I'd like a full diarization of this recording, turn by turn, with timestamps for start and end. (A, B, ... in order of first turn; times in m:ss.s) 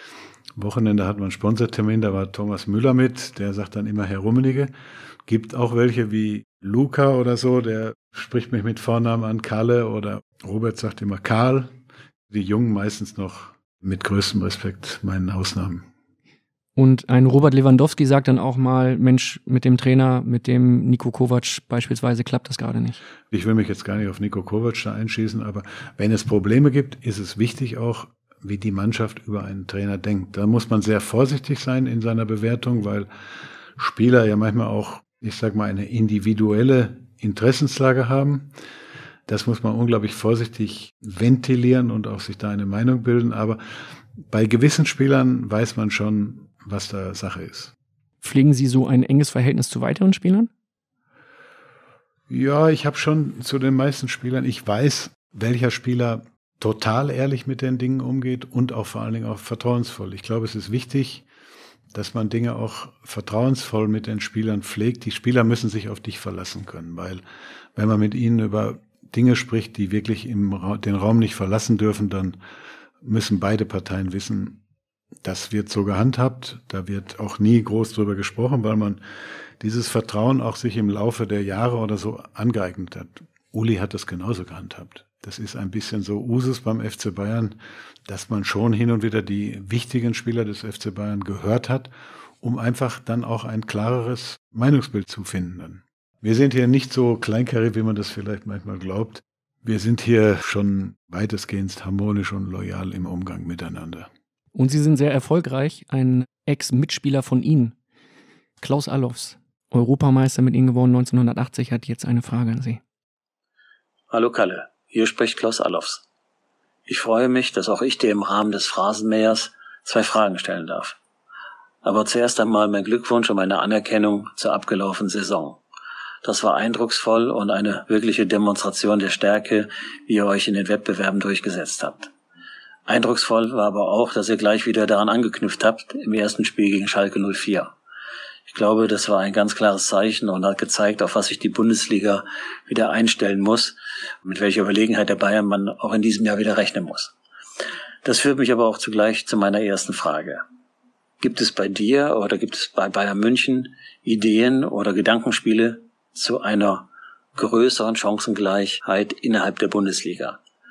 0:00.6-0:04.7 A
0:05.3-0:11.7 A
0:12.3-0:15.9 A
0:16.8-0:23.0 B
0:23.3-0:33.1 A
0:33.8-0:38.5 A
0:39.3-0:43.6 A
0:44.3-0:47.7 A
0:48.2-0:50.5 B
0:52.3-1:01.2 A
1:01.9-1:07.2 A
1:07.7-1:12.4 A
1:13.0-1:14.6 A
1:15.2-1:19.0 A
1:19.6-1:44.1 A
1:44.6-1:47.7 B
1:48.6-1:52.8 B
1:54.1-1:56.0 C
1:56.9-2:01.0 C
2:01.8-2:05.6 C
2:06.2-2:12.1 C
2:12.9-2:17.7 C
2:18.5-2:27.1 C
2:28.0-2:30.4 C
2:31.2-2:40.4 C